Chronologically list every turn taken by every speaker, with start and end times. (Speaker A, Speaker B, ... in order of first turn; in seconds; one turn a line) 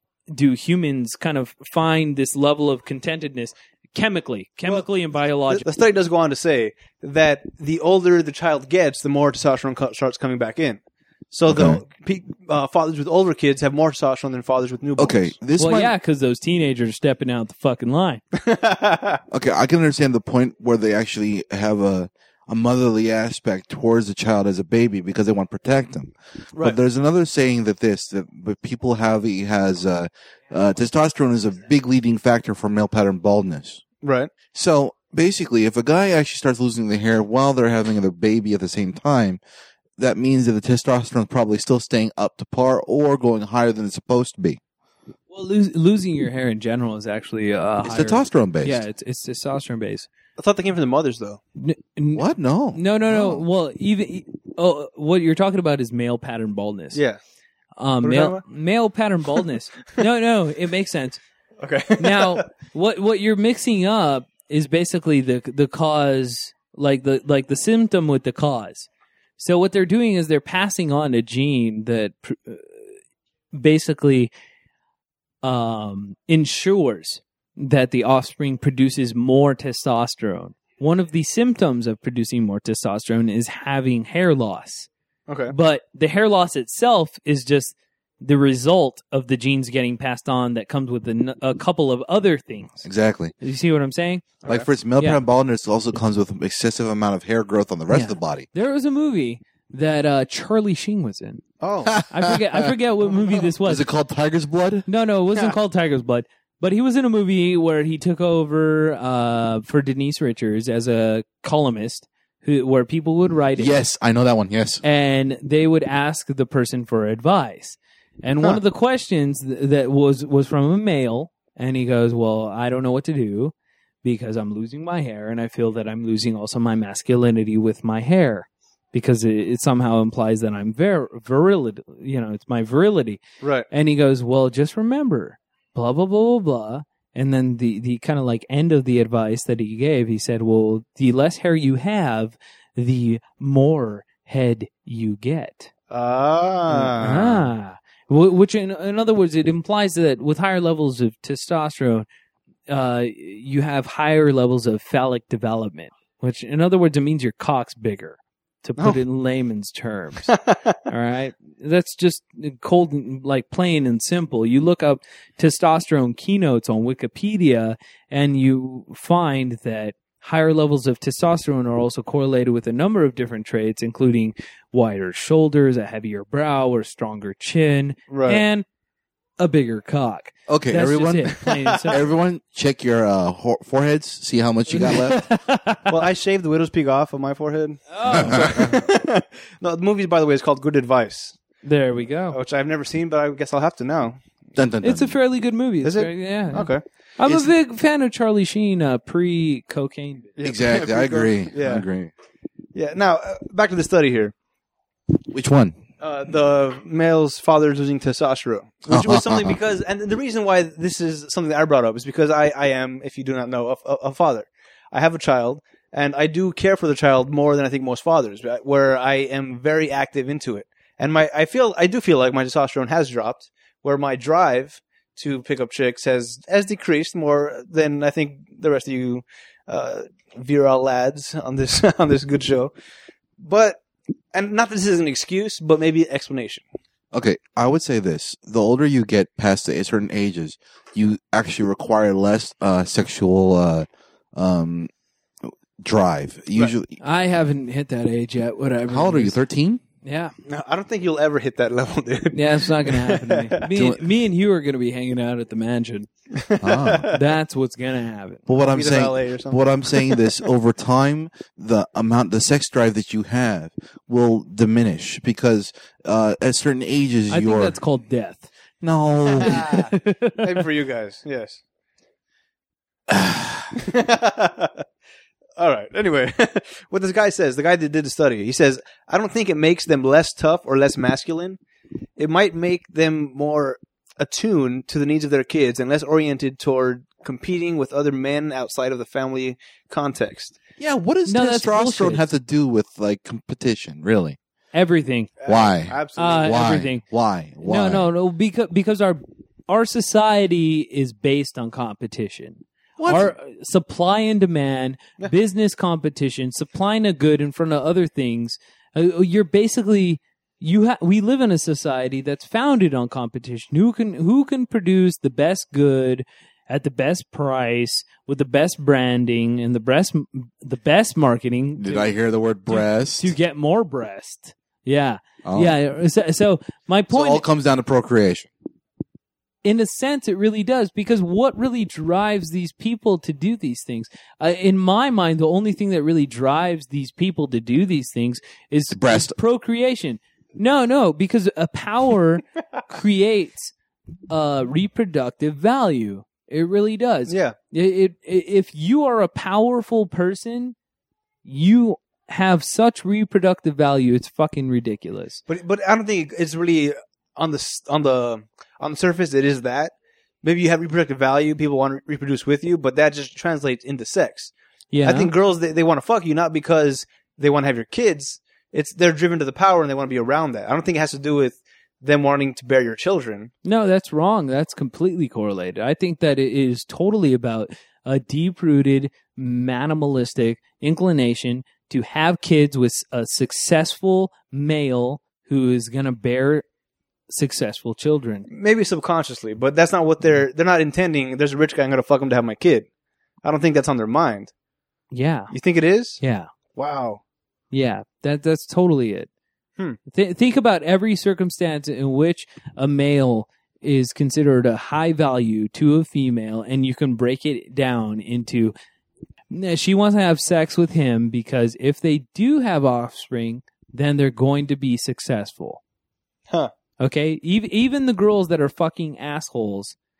Speaker A: 0.3-5.7
Speaker B: 5.5-10.8
Speaker B: 11.3-15.4
Speaker C: 11.5-11.8
Speaker C: 15.0-15.9
Speaker A: 15.6-18.2
Speaker B: 18.3-19.2
Speaker C: 19.3-33.8
Speaker B: 34.0-34.3
Speaker C: 34.5-39.4
Speaker C: 40.0-44.6
Speaker A: 45.3-50.1
Speaker C: 47.8-48.8
Speaker B: 50.4-51.4
Speaker A: 51.6-57.0
Speaker C: 52.1-53.4
Speaker B: 56.9-57.2
Speaker A: 57.8-61.2
Speaker B: 58.0-58.4
Speaker B: 61.6-62.5
Speaker A: 62.0-72.8
Speaker A: 73.5-74.3
Speaker A: 75.4-84.9
Speaker B: 85.3-85.5
Speaker A: 85.5-92.8
Speaker C: 92.8-93.3
Speaker A: 93.4-94.3
Speaker C: 94.5-98.5
Speaker A: 97.9-101.4
Speaker B: 101.6-102.0
Speaker C: 101.9-102.7
Speaker A: 102.1-103.9
Speaker C: 103.6-104.9
Speaker A: 104.9-113.8
Speaker C: 113.6-114.8
Speaker A: 114.8-145.7
Speaker B: 133.4-133.7
Speaker B: 145.9-147.5
Speaker A: 146.7-152.1
Speaker A: 152.7-160.4
Speaker B: 160.3-160.8
Speaker A: 160.9-178.7
Speaker B: 178.1-178.4
Speaker A: 179.4-182.0
Speaker C: 180.5-185.3
Speaker A: 184.7-185.9
Speaker B: 185.9-191.4
Speaker A: 187.9-188.8
Speaker C: 188.1-188.7
Speaker A: 191.6-192.4
Speaker B: 192.3-194.2
Speaker C: 194.6-195.2
Speaker A: 194.8-200.3
Speaker B: 195.8-196.8
Speaker C: 197.2-197.5
Speaker B: 200.4-201.9
Speaker C: 200.4-202.1
Speaker B: 202.8-204.3
Speaker C: 205.3-205.8
Speaker B: 206.0-232.7
Speaker C: 208.9-209.6
Speaker B: 233.4-233.8
Speaker B: 234.3-236.6
Speaker C: 237.1-244.9
Speaker C: 245.8-247.0
Speaker A: 247.0-249.4
Speaker C: 248.9-249.8
Speaker A: 250.0-250.3
Speaker B: 250.5-253.7
Speaker A: 252.3-256.1
Speaker C: 253.7-254.0
Speaker B: 256.3-257.3
Speaker C: 256.6-257.1
Speaker A: 257.1-258.4
Speaker C: 258.5-267.8
Speaker B: 258.7-260.3
Speaker A: 267.3-268.5
Speaker C: 268.8-269.8
Speaker B: 269.4-271.6
Speaker A: 269.4-270.6
Speaker B: 273.7-274.8
Speaker B: 275.6-281.6
Speaker B: 282.2-290.6
Speaker C: 290.8-294.4
Speaker A: 291.3-292.2
Speaker A: 294.7-295.3
Speaker B: 295.4-296.6
Speaker C: 295.5-298.1
Speaker A: 296.2-297.0
Speaker A: 297.6-322.1
Speaker C: 303.0-303.3
Speaker C: 321.8-323.4
Speaker A: 322.7-327.4
Speaker C: 325.4-325.8
Speaker C: 327.1-328.5
Speaker A: 329.6-343.7
Speaker C: 338.9-339.4
Speaker A: 344.3-350.8
Speaker B: 347.3-347.6
Speaker A: 351.4-355.4
Speaker B: 355.5-364.5
Speaker A: 364.9-365.3
Speaker B: 365.0-373.5
Speaker A: 373.6-386.6
Speaker A: 387.3-388.5
Speaker B: 388.5-392.9
Speaker B: 393.4-394.5
Speaker A: 395.1-395.5
Speaker B: 395.5-396.2
Speaker A: 396.2-396.5
Speaker B: 396.8-397.2
Speaker A: 397.7-399.3
Speaker A: 400.1-408.7
Speaker A: 409.5-415.8
Speaker A: 417.0-420.0